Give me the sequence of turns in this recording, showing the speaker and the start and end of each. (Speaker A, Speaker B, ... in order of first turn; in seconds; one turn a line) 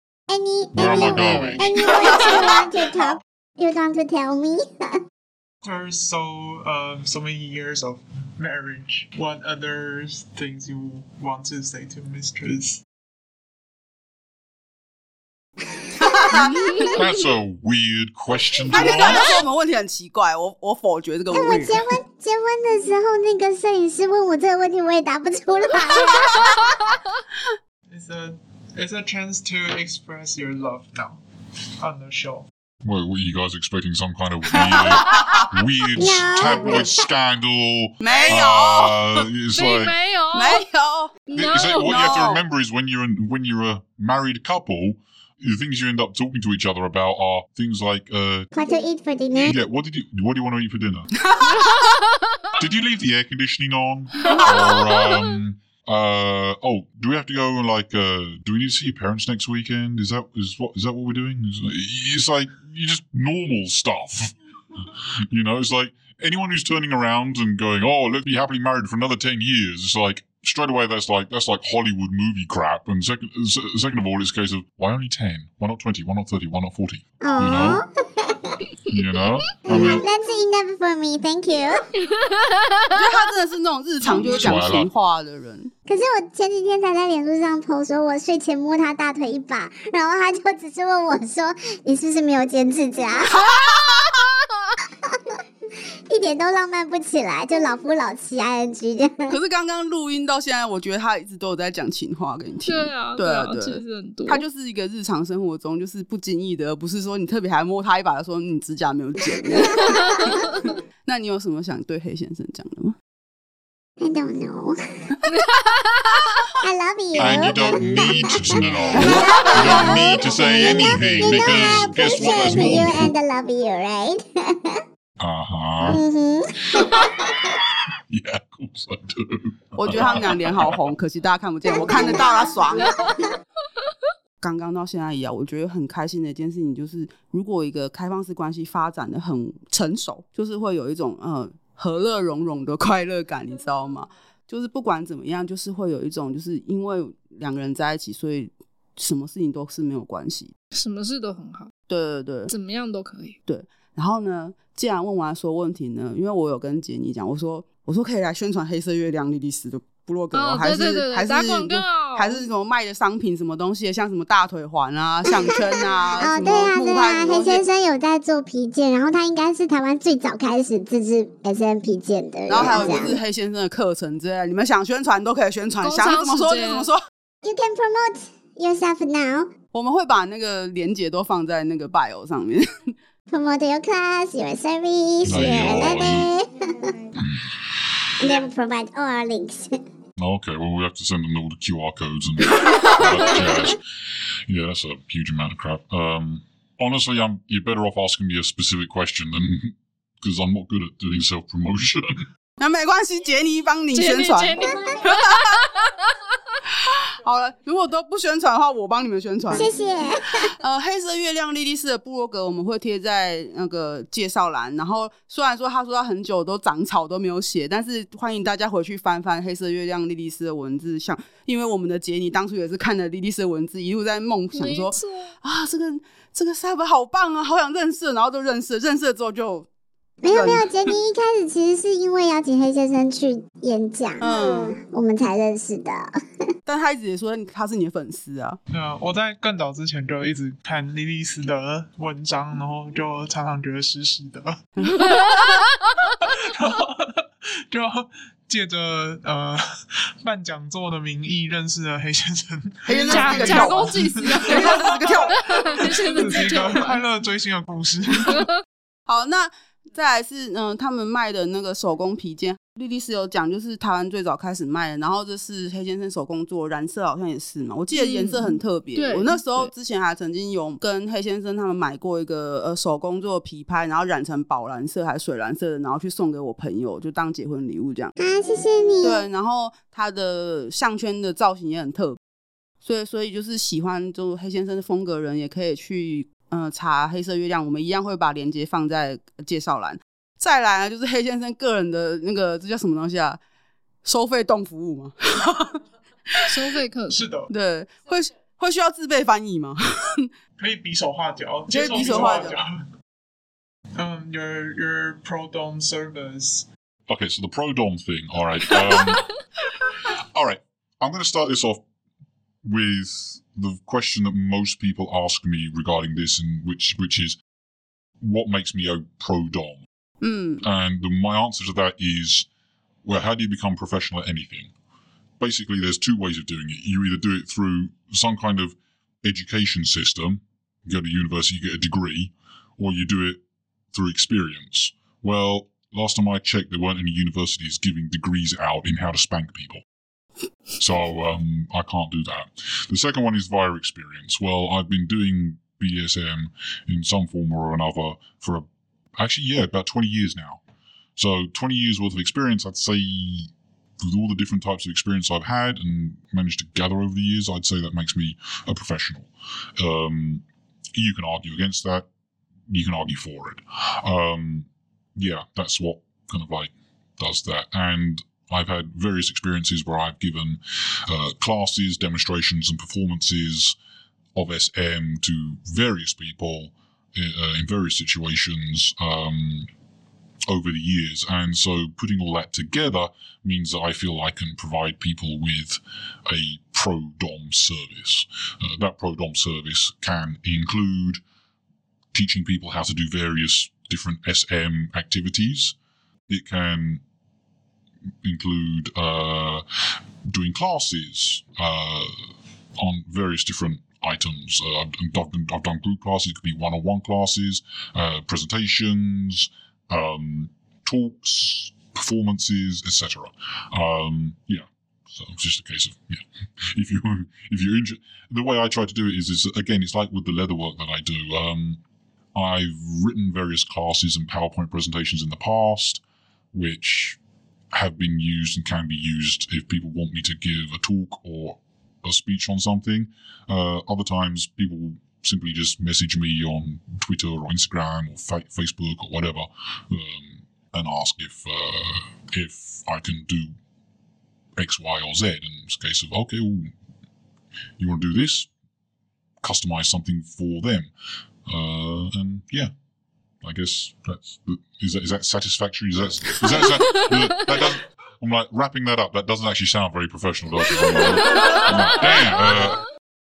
Speaker A: 0.3-5.0
Speaker B: 0.7-1.7
Speaker C: 1.1-3.0
Speaker D: 5.6-12.8
Speaker C: 16.0-16.9
Speaker B: 16.9-19.4
Speaker C: 18.7-21.8
Speaker A: 21.3-26.6
Speaker D: 27.9-31.2
Speaker D: 31.8-32.5
Speaker B: 32.8-40.0
Speaker C: 34.5-35.5
Speaker A: 36.0-37.0
Speaker C: 38.0-39.2
Speaker E: 39.5-40.6
Speaker C: 40.3-42.4
Speaker E: 41.3-42.0
Speaker B: 41.3-48.5
Speaker A: 48.5-49.6
Speaker B: 49.4-51.1
Speaker C: 51.2-51.9
Speaker E: 51.6-52.1
Speaker B: 52.6-77.8
Speaker E: 54.2-55.4
Speaker A: 77.2-78.5
Speaker B: 78.9-80.0
Speaker A: 79.7-81.8
Speaker E: 82.0-83.1
Speaker C: 82.9-85.7
Speaker B: 84.3-84.9
Speaker A: 85.9-93.4
Speaker C: 93.3-94.2
Speaker A: 96.1-99.3
Speaker C: 99.3-110.4
Speaker E: 102.7-104.4
Speaker E: 109.7-110.5
Speaker C: 111.0-113.0
Speaker A: 114.0-114.8
Speaker E: 115.3-116.2
Speaker A: 116.6-124.7
Speaker B: 117.2-123.1
Speaker C: 118.9-119.9
Speaker B: 125.2-126.0
Speaker A: 125.8-127.5
Speaker B: 126.8-127.0
Speaker B: 128.1-130.8
Speaker C: 129.8-132.9
Speaker A: 131.7-132.4
Speaker C: 134.4-150.5
Speaker E: 150.7-151.7
Speaker C: 151.9-152.5
Speaker E: 152.5-153.4
Speaker C: 153.5-167.6
Speaker E: 160.3-162.4
Speaker A: 166.2-173.2
Speaker C: 172.5-177.0
Speaker E: 172.6-173.0
Speaker E: 175.8-176.9
Speaker A: 177.4-179.5
Speaker C: 179.7-182.9
Speaker A: 183.3-186.9
Speaker B: 185.2-186.3
Speaker B: 187.2-188.3
Speaker A: 188.2-189.8
Speaker B: 190.2-193.8
Speaker B: 194.5-202.2
Speaker C: 202.6-205.6
Speaker E: 203.9-206.1
Speaker C: 206.7-209.7
Speaker A: 209.5-210.5
Speaker C: 210.4-229.7
Speaker E: 224.5-225.3
Speaker A: 230.2-236.1
Speaker C: 230.3-230.7
Speaker C: 234.2-234.8
Speaker C: 236.7-238.6
Speaker D: 238.7-244.6
Speaker C: 244.8-245.6
Speaker E: 245.0-245.9
Speaker D: 246.2-255.1
Speaker C: 252.8-256.0
Speaker E: 253.1-257.0
Speaker D: 255.8-258.5
Speaker C: 259.1-278.1
Speaker E: 267.9-269.7
Speaker A: 278.2-279.2
Speaker C: 279.0-282.2
Speaker C: 282.8-293.4
Speaker C: 294.0-295.8
Speaker E: 296.4-297.2
Speaker D: 297.1-297.5
Speaker C: 297.5-300.3
Speaker D: 300.6-302.9
Speaker C: 301.7-302.6
Speaker D: 303.9-306.6
Speaker B: 307.1-309.3
Speaker B: 310.0-311.8
Speaker B: 312.6-317.4
Speaker B: 318.2-319.8
Speaker C: 320.2-320.6
Speaker B: 320.6-322.5
Speaker B: 323.0-324.7
Speaker B: 325.4-333.4
Speaker B: 333.9-339.8
Speaker B: 340.8-348.6
Speaker B: 349.2-350.6
Speaker B: 351.2-360.4
Speaker B: 360.9-362.1
Speaker B: 362.7-373.8
Speaker B: 374.3-379.7
Speaker B: 380.5-391.2
Speaker B: 392.1-395.7
Speaker B: 396.3-397.0
Speaker B: 398.2-421.8
Speaker B: 422.3-426.0
Speaker B: 426.5-427.2
Speaker B: 427.7-443.5
Speaker B: 444.6-446.7
Speaker B: 447.8-448.5
Speaker B: 449.4-450.9
Speaker B: 451.4-452.7
Speaker B: 453.4-462.9
Speaker E: 461.2-461.7